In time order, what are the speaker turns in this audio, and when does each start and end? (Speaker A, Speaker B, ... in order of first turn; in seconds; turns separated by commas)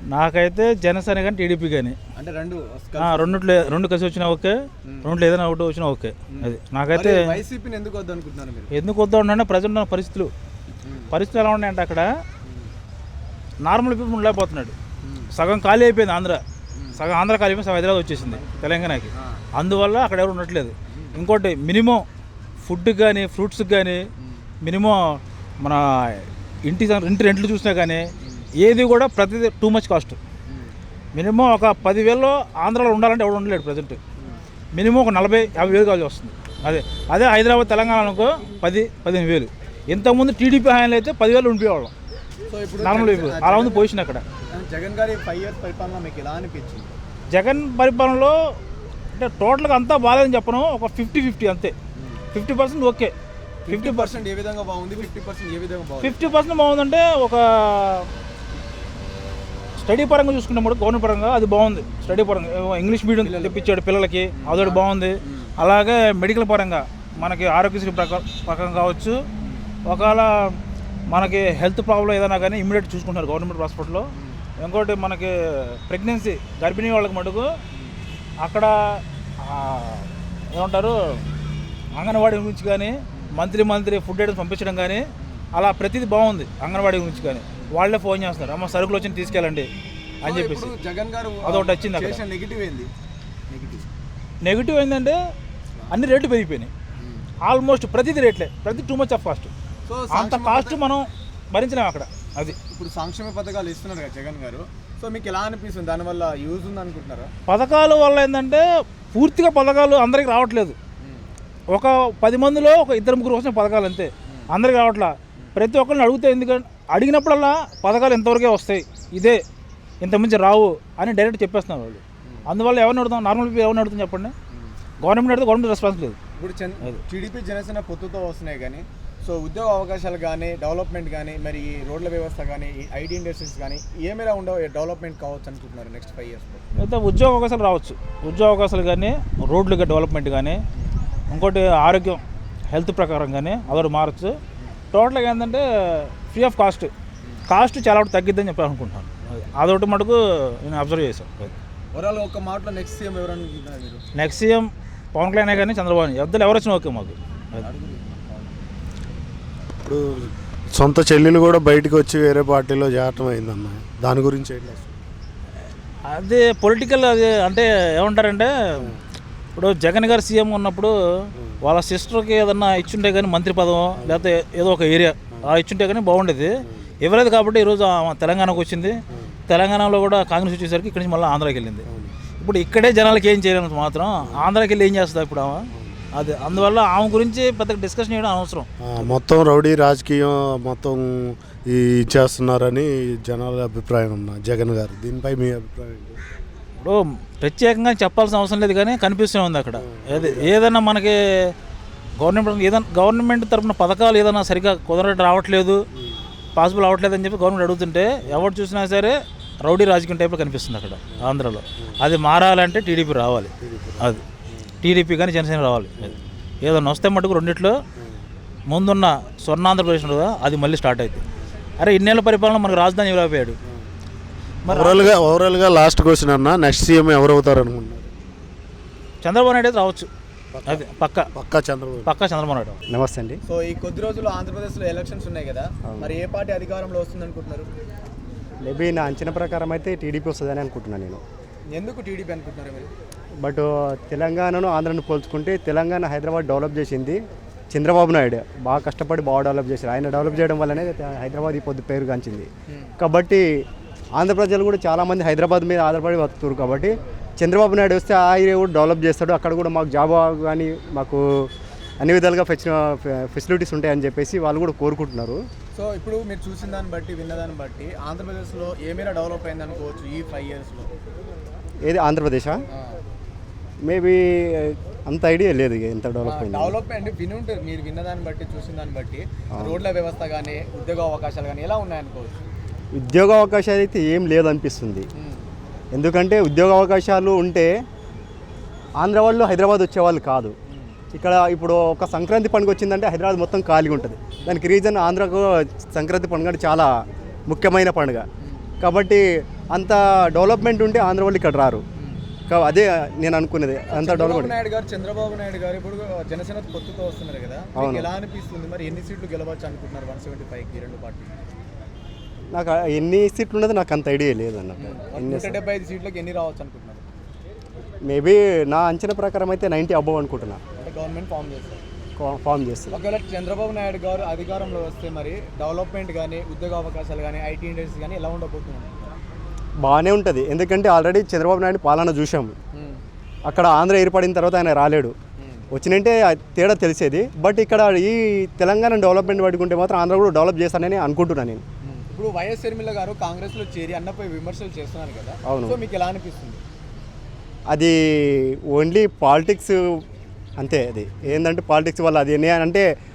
Speaker A: 0.1-2.0, Speaker B: 2.2-3.8, Speaker A: 3.0-7.3, Speaker B: 4.8-5.1, Speaker B: 6.3-8.7, Speaker A: 8.7-10.3, Speaker B: 10.8-11.1, Speaker A: 11.1-12.1, Speaker B: 12.4-12.7, Speaker A: 13.6-14.8, Speaker B: 15.0-15.3, Speaker A: 15.3-16.4, Speaker B: 16.8-17.0, Speaker A: 16.9-22.1, Speaker B: 18.2-19.4, Speaker B: 20.9-21.2, Speaker A: 22.6-24.1, Speaker B: 24.2-24.4, Speaker A: 24.6-28.1, Speaker B: 28.2-28.5, Speaker A: 28.6-30.2, Speaker B: 30.5-30.8, Speaker A: 31.1-34.0, Speaker A: 34.7-41.9, Speaker B: 42.5-43.9, Speaker A: 42.8-44.3, Speaker B: 44.5-47.0, Speaker A: 47.3-48.4, Speaker A: 49.1-51.8, Speaker B: 52.0-52.2, Speaker A: 52.3-53.1, Speaker B: 53.7-56.2, Speaker A: 53.7-54.2, Speaker A: 56.0-58.1, Speaker A: 59.8-69.2, Speaker B: 63.2-63.5, Speaker B: 64.4-65.5, Speaker B: 69.4-69.7, Speaker A: 69.9-70.6, Speaker A: 71.1-77.5, Speaker B: 74.2-74.4, Speaker A: 78.4-81.2, Speaker A: 82.0-89.7, Speaker A: 90.2-90.7, Speaker B: 90.2-92.9, Speaker A: 91.4-92.2, Speaker B: 93.5-93.9, Speaker A: 94.4-95.2, Speaker A: 95.9-96.7, Speaker B: 97.0-97.3, Speaker A: 97.4-99.5, Speaker B: 99.9-100.8, Speaker A: 100.1-102.6, Speaker B: 102.7-107.3, Speaker A: 107.5-110.8, Speaker B: 111.0-111.3, Speaker A: 111.7-119.4, Speaker A: 120.0-124.3, Speaker A: 125.0-126.2, Speaker B: 126.4-136.8, Speaker A: 136.8-140.6, Speaker A: 141.3-144.4, Speaker A: 144.9-146.9, Speaker A: 147.5-151.6, Speaker B: 151.9-154.0, Speaker A: 154.2-157.7, Speaker B: 157.6-158.6, Speaker C: 159.8-164.9, Speaker A: 166.1-168.9, Speaker A: 169.6-170.9, Speaker A: 171.6-179.0, Speaker C: 174.0-174.3, Speaker A: 179.5-181.9, Speaker C: 181.9-182.2, Speaker A: 182.4-189.1, Speaker C: 188.8-196.2, Speaker A: 196.8-201.5, Speaker C: 199.9-200.5, Speaker A: 202.2-205.8, Speaker A: 206.6-214.2, Speaker C: 213.6-214.7, Speaker A: 214.8-217.8, Speaker A: 218.7-221.2, Speaker A: 221.8-223.6, Speaker A: 224.7-225.2, Speaker C: 224.7-228.1, Speaker A: 229.2-230.1, Speaker C: 230.5-232.1, Speaker A: 230.7-231.3, Speaker A: 232.1-232.8, Speaker D: 232.9-233.4, Speaker B: 233.5-237.7, Speaker D: 235.9-236.2, Speaker D: 238.6-241.2, Speaker B: 241.7-242.9, Speaker D: 243.4-247.2, Speaker D: 247.7-252.5, Speaker D: 253.0-253.4, Speaker D: 254.2-261.5, Speaker D: 262.0-265.4, Speaker B: 265.8-270.9, Speaker D: 271.8-272.6, Speaker B: 272.7-273.0, Speaker D: 273.8-276.8, Speaker B: 276.2-282.4, Speaker D: 279.6-279.8, Speaker D: 282.9-285.1, Speaker B: 285.2-285.5, Speaker D: 285.9-287.7, Speaker D: 289.0-290.5, Speaker B: 290.7-290.9, Speaker D: 291.1-296.9, Speaker D: 297.5-298.2, Speaker B: 298.4-298.7, Speaker D: 298.8-301.8, Speaker D: 302.5-304.6, Speaker B: 303.9-311.4, Speaker D: 307.8-308.1, Speaker D: 312.5-315.6, Speaker B: 314.8-317.0, Speaker D: 318.1-320.6, Speaker B: 320.8-321.8, Speaker D: 322.2-323.0, Speaker B: 322.9-329.1, Speaker D: 329.8-332.6, Speaker B: 332.7-333.0, Speaker D: 333.5-335.1, Speaker B: 335.4-335.6, Speaker D: 335.7-341.6, Speaker B: 341.8-346.6, Speaker D: 345.4-345.8, Speaker D: 347.7-350.0, Speaker D: 350.6-352.9